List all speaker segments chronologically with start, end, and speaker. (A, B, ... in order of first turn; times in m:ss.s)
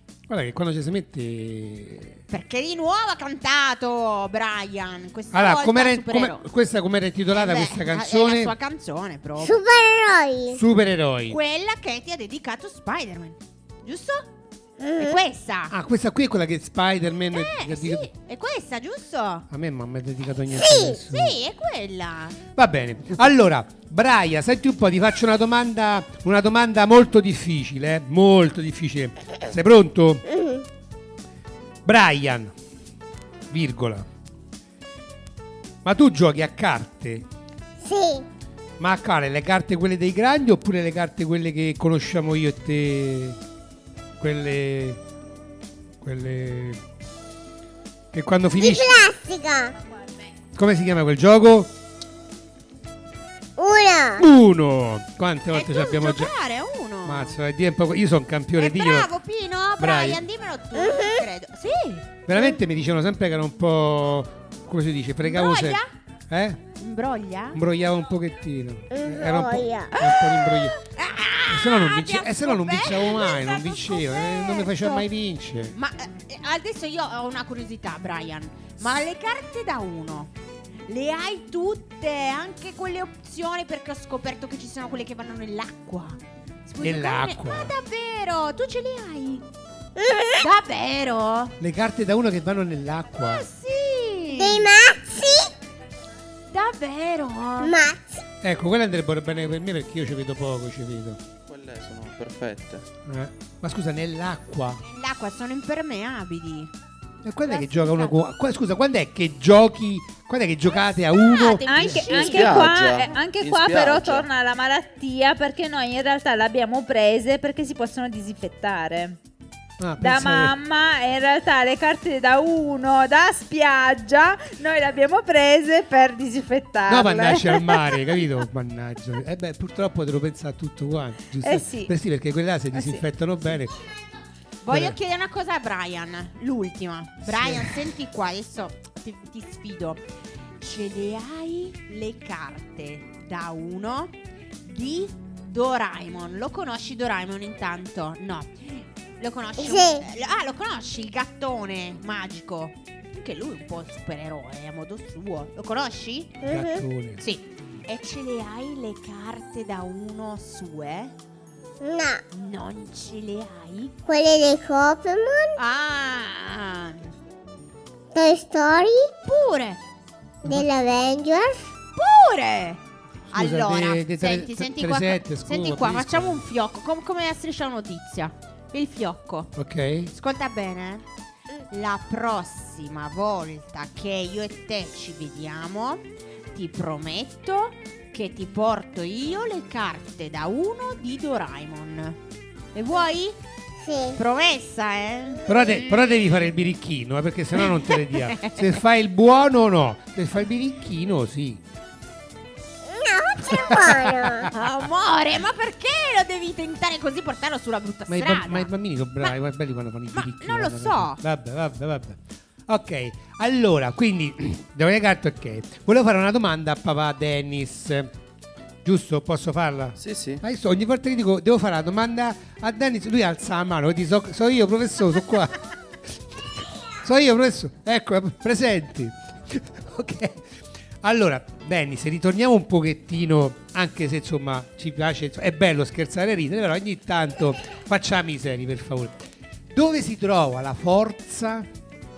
0:00.3-0:02.2 A
0:02.3-0:06.5 B
0:05.3-0:08.6 A
0:07.3-0:09.6 B
0:09.4-0:10.6 C
0:10.5-0:11.4 A
0:11.3-0:14.3 B
0:14.8-0:15.2 C
0:15.0-0:15.7 B
0:15.7-0:18.1 A
0:17.3-0:19.5 B
0:19.5-0:21.4 A
0:20.5-0:20.9 C
0:20.9-0:22.4 B
0:22.6-0:30.2 A
0:30.4-0:30.6 C
0:31.8-0:32.5 A
0:33.5-0:34.1 A
0:35.8-0:37.3 A
0:37.8-0:38.2 C
0:38.8-0:43.4 A
0:44.2-0:45.0 A
0:46.0-0:46.8 A
0:48.1-0:49.1 A
0:48.6-0:49.7 C
0:50.5-0:51.7 A
0:53.6-0:54.2 C
0:54.2-0:56.3 A
0:55.5-0:57.4 B
0:57.0-0:59.1 A
0:58.6-1:02.1 B
0:59.8-1:00.2 A
1:00.7-1:01.2 C
1:02.3-1:06.6 A
1:05.2-1:05.9 B
1:06.8-1:07.6 B
1:07.5-1:10.8 A
1:08.9-1:09.9 C
1:09.9-1:14.7 B
1:11.5-1:15.8 A
1:15.7-1:20.3 B
1:20.9-1:29.4 B
1:26.8-1:27.7 A
1:30.0-1:30.4 C
1:30.4-1:31.6 B
1:31.6-1:33.5 A
1:33.2-1:34.7 B
1:34.3-1:35.5 C
1:36.5-1:37.8 B
1:37.6-1:38.2 C
1:38.4-1:41.2 A
1:41.5-1:42.9 D
1:43.0-1:44.8 A
1:44.8-1:46.7 B
1:47.2-1:52.2 A
1:47.4-1:48.2 B
1:51.1-1:52.8 B
1:51.7-1:59.2 E
1:52.2-1:54.3 D
1:59.8-2:00.6 A
2:00.0-2:08.3 E
2:06.8-2:13.8 A
2:11.4-2:11.9 E
2:12.7-2:13.0 E
2:14.6-2:20.1 B
2:14.7-2:15.0 A
2:17.2-2:17.8 A
2:20.6-2:36.4 B
2:29.6-2:30.0 C
2:36.4-2:36.8 C
2:36.4-2:37.2 A
2:37.2-2:41.1 B
2:41.8-2:42.2 C
2:42.3-2:44.0 B
2:44.0-2:45.6 C
2:45.6-2:47.1 B
2:48.1-2:49.1 C
2:49.2-2:49.8 B
2:50.4-2:51.7 C
2:51.9-2:52.8 B
2:53.3-2:56.4 A
2:53.3-2:59.5 B
2:59.5-3:00.1 A
3:00.1-3:01.0 B
3:01.7-3:12.2 B
3:12.7-3:13.4 B
3:13.8-3:14.2 C
3:14.2-3:16.1 B
3:15.5-3:21.6 A
3:17.6-3:18.6 B
3:22.8-3:24.5 C
3:23.4-3:24.5 A
3:24.5-3:29.3 B
3:28.1-3:38.1 A
3:30.1-3:31.2 B
3:38.8-3:45.6 A
3:40.0-3:40.4 D
3:46.1-3:50.5 A
3:51.0-4:01.7 A